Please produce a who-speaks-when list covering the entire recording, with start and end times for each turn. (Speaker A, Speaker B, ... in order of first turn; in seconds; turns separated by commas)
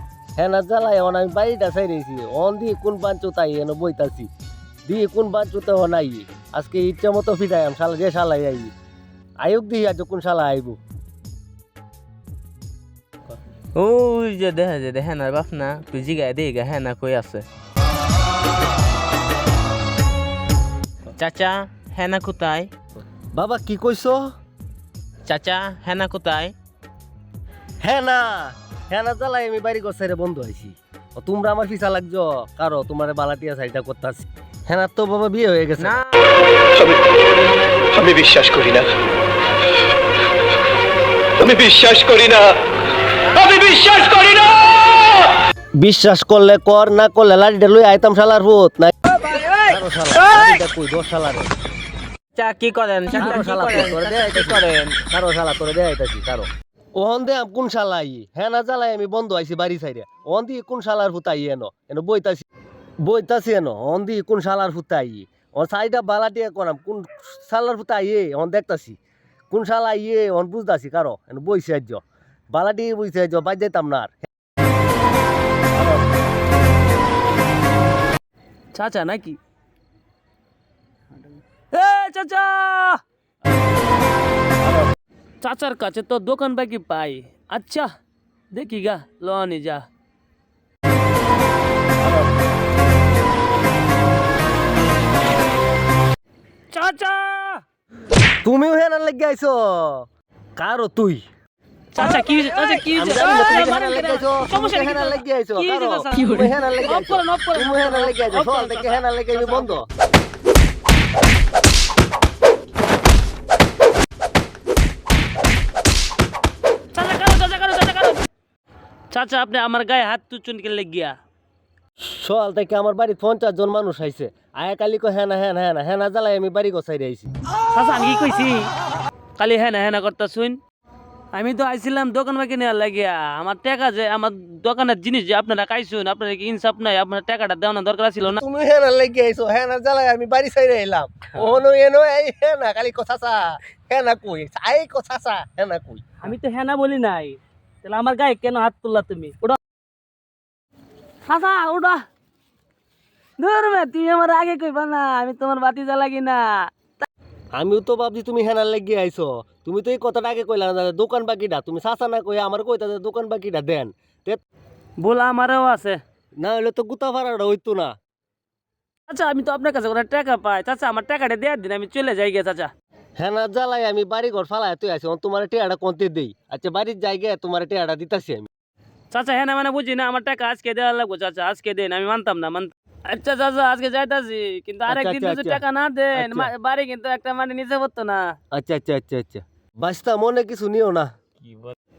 Speaker A: 0.3-4.3, Speaker A: 4.8-8.7, Speaker A: 9.4-10.8, Speaker B: 13.8-17.4, Speaker B: 21.2-22.7, Speaker A: 23.3-24.3, Speaker B: 25.3-26.5, Speaker A: 27.8-36.0, Speaker B: 35.8-36.1, Speaker C: 37.9-38.9, Speaker C: 41.4-42.5, Speaker B: 43.3-44.5, Speaker A: 45.8-48.9, Speaker A: 49.6-51.5, Speaker B: 52.4-55.0, Speaker A: 53.1-62.4, Speaker A: 63.0-69.0, Speaker A: 69.5-74.2, Speaker D: 78.7-79.4, Speaker D: 81.7-83.0, Speaker D: 85.4-87.9, Speaker D: 88.5-89.8, Speaker D: 96.7-97.6, Speaker A: 98.4-101.2, Speaker D: 101.9-109.7, Speaker A: 102.9-109.9, Speaker D: 116.9-118.2, Speaker D: 119.1-121.1, Speaker A: 122.0-127.3, Speaker D: 127.7-128.7, Speaker D: 129.4-130.6, Speaker D: 131.3-138.4, Speaker A: 138.3-146.2, Speaker D: 146.2-149.6, Speaker D: 151.3-152.0, Speaker D: 153.4-157.1, Speaker A: 157.5-164.4, Speaker D: 165.0-166.0, Speaker A: 166.4-167.9, Speaker D: 169.1-172.7, Speaker A: 173.2-178.5, Speaker D: 179.1-188.3, Speaker A: 184.9-185.6, Speaker A: 186.1-186.5, Speaker A: 188.5-191.1, Speaker B: 191.4-191.7